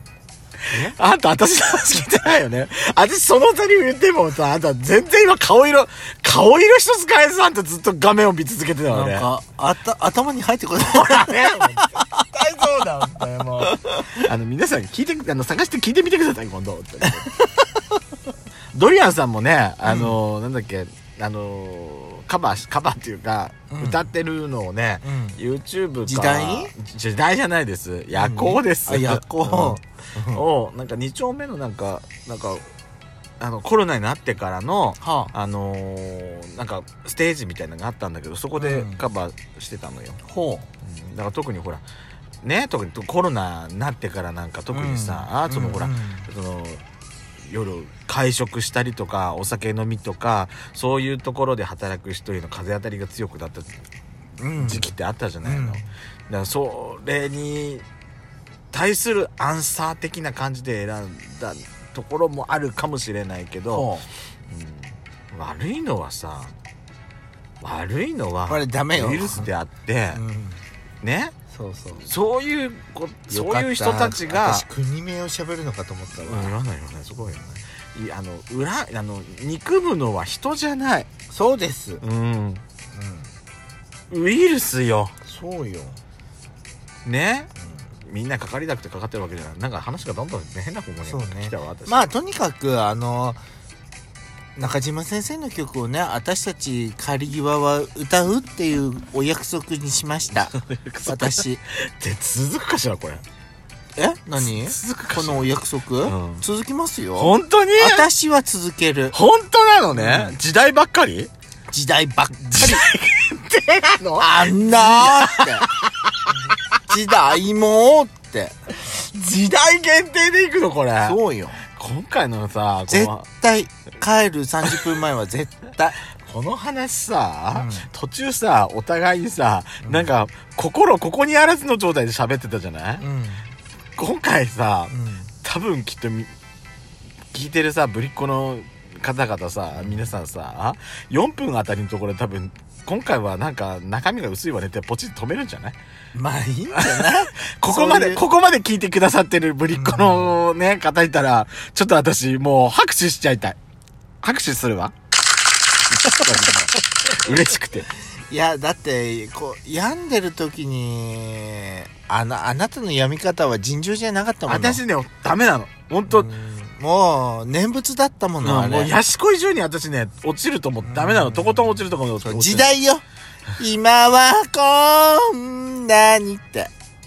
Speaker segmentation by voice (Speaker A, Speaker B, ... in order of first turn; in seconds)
Speaker A: 0.7-9.3, 10.8-17.3, 18.7-32.7, 33.4-40.2, 40.8-41.9, 42.4-46.8, 47.5-53.9, 54.6-57.9, 58.7-63.9, 64.5-66.6, 67.6-70.2, 71.0-71.3, 72.0-74.7, 76.2-81.1, 82.0-82.6, 84.1-85.2, 87.0-92.1, 100.4-103.2, 104.4-106.4, 107.2-108.1, 109.1-111.3, 112.5-116.3, 118.8-123.3, 126.1-133.0, 134.0-136.3, 137.3-145.8, 146.7-153.6, 154.2-154.9, 155.9-157.9, 164.5-166.3, 168.4-172.7
Speaker B: 8.9-12.0, 17.1-17.8, 19.9-20.2, 23.7-24.1, 25.0-25.4, 26.1-26.7, 28.1-30.4, 35.0-35.3, 38.6-39.0, 40.2-40.7, 44.7-46.3, 54.4-54.9, 55.4-55.9, 63.7-64.1, 68.5-69.5, 70.1-70.7, 71.5-72.1, 73.3-76.6, 81.3-82.0, 82.9-83.3, 85.2-86.0, 87.6-87.9, 91.0-93.4, 94.6-100.5, 101.1-101.6, 104.0-109.2, 109.9-110.4, 111.7-112.8, 114.2-115.7, 116.8-118.6, 121.0-121.6, 122.9-126.0, 127.5-127.9, 129.8-130.1, 133.0-133.5, 134.9-135.3, 139.8-140.1, 146.2-148.2, 149.7-150.4, 156.2-156.6, 158.3-164.8, 166.1-168.9, 170.8-173.0, 173.6-176.7